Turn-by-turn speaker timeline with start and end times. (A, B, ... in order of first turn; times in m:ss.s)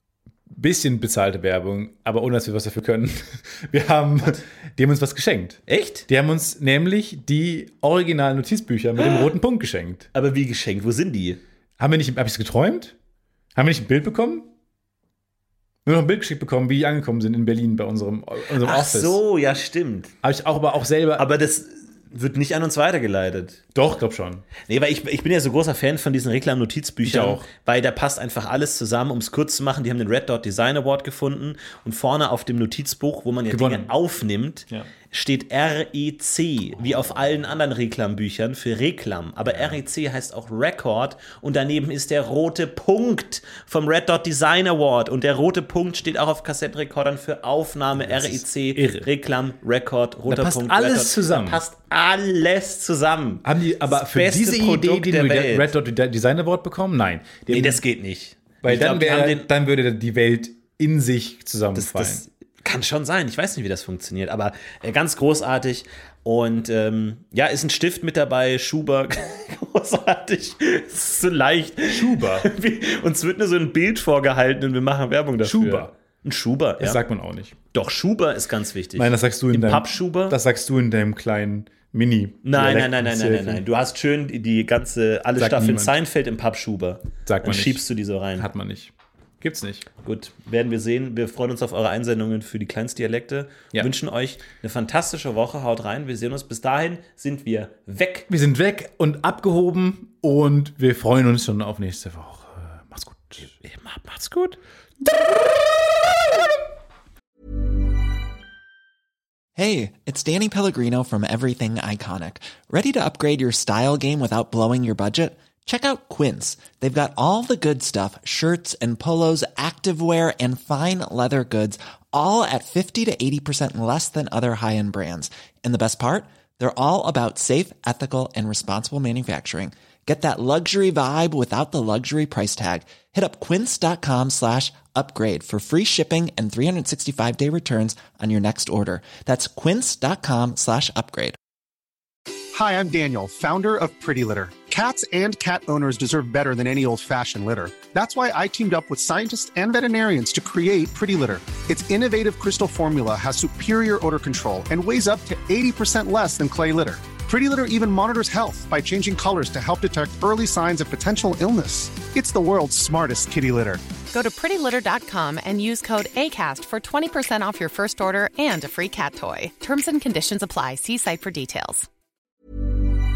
0:00.5-0:10.1 A
0:05.7-0:06.0 B
0:10.1-0:11.4 B
0:11.8-0:12.9 A
0:13.6-0:14.5 A
0:15.8-0:19.2 A
0:18.5-0:20.1 B
0:20.2-0:21.3 A
0:21.2-0:23.6 B
0:23.7-0:24.4 A
0:24.7-0:55.7 B
0:27.0-0:27.4 A
0:33.5-0:33.9 A
0:48.0-0:49.1 A
0:50.3-0:51.6 A
0:53.4-0:57.8 A
0:57.5-0:59.5 B
0:58.6-1:02.2 A
1:01.8-1:17.0 B
1:11.9-1:12.5 A
1:15.4-1:15.9 A
1:16.8-1:17.5 A
1:17.7-1:20.4 B
1:19.0-1:23.6 A
1:22.4-1:28.5 B
1:25.3-1:25.9 A
1:27.2-1:27.8 A
1:28.4-1:29.9 A
1:30.0-1:38.3 B
1:38.3-1:43.5 A
1:43.4-1:44.6 B
1:49.6-2:21.4 C
2:22.5-2:43.8 D
2:44.1-2:51.9 E